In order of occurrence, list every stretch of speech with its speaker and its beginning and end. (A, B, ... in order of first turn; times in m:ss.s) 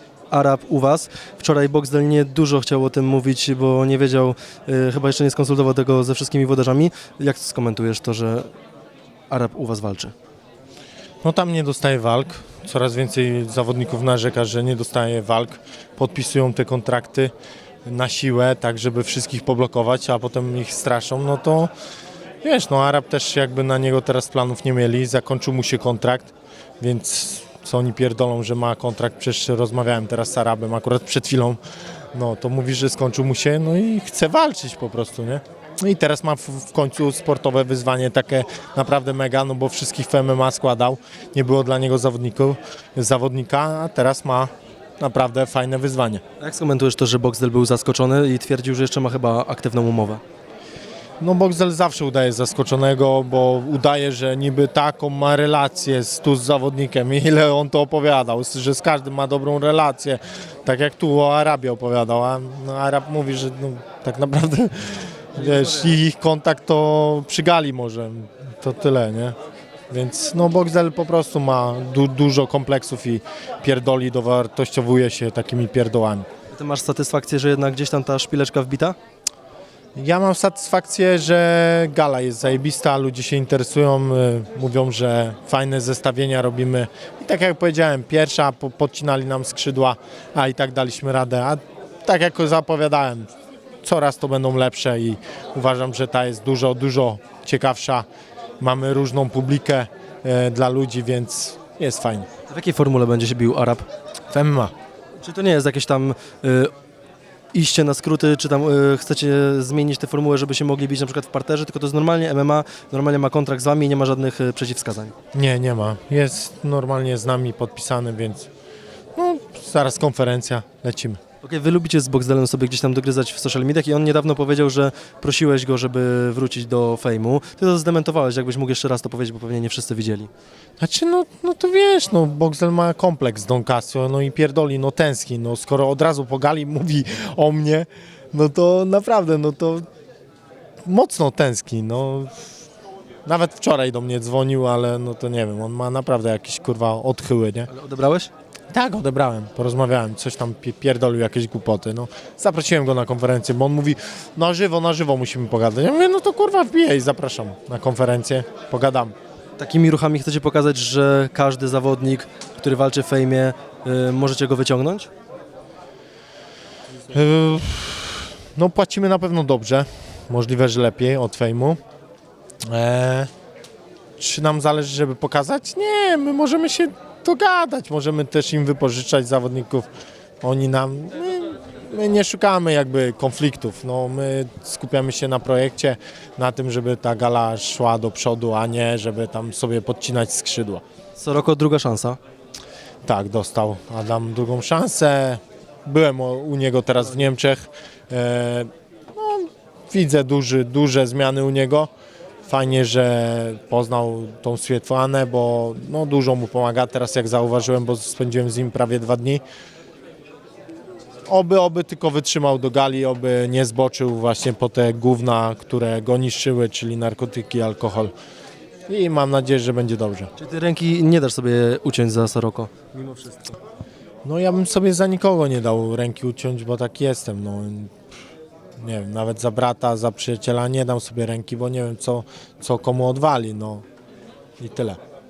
0:00.3-0:08.5 A
0:09.3-0:10.1 A
0:11.2-0:17.3 B
0:17.8-0:21.7 B
0:22.4-0:31.6 B
0:32.1-0:46.2 B
0:46.4-0:50.2 A
0:51.2-1:09.3 B
1:05.4-1:06.0 A
1:09.9-1:16.2 B
1:16.5-1:19.0 A
1:20.0-1:33.3 B
1:33.8-1:38.0 B
1:38.6-1:42.3 B
1:42.5-1:43.8 A
1:44.3-1:44.7 B
1:45.2-1:46.7 A
1:47.5-1:55.1 A
1:55.3-1:58.5 B
1:59.2-2:01.2 B
2:01.4-2:10.3 A
2:10.8-2:19.8 B
2:20.8-2:22.5 B
2:23.2-2:27.7 B
2:27.7-2:28.3 A
2:28.7-2:39.1 B
2:39.6-2:45.1 A
2:47.1-2:51.8 B
2:52.7-2:53.3 B
2:54.2-2:59.9 B
3:00.4-3:10.8 B
3:11.2-3:12.2 A
3:13.0-3:21.9 B
3:22.4-3:29.4 B
3:31.3-3:38.1 B
3:38.9-3:40.3 B
3:40.4-3:43.6 A
3:44.2-3:47.9 B
3:48.8-3:53.8 B
3:54.6-3:55.0 B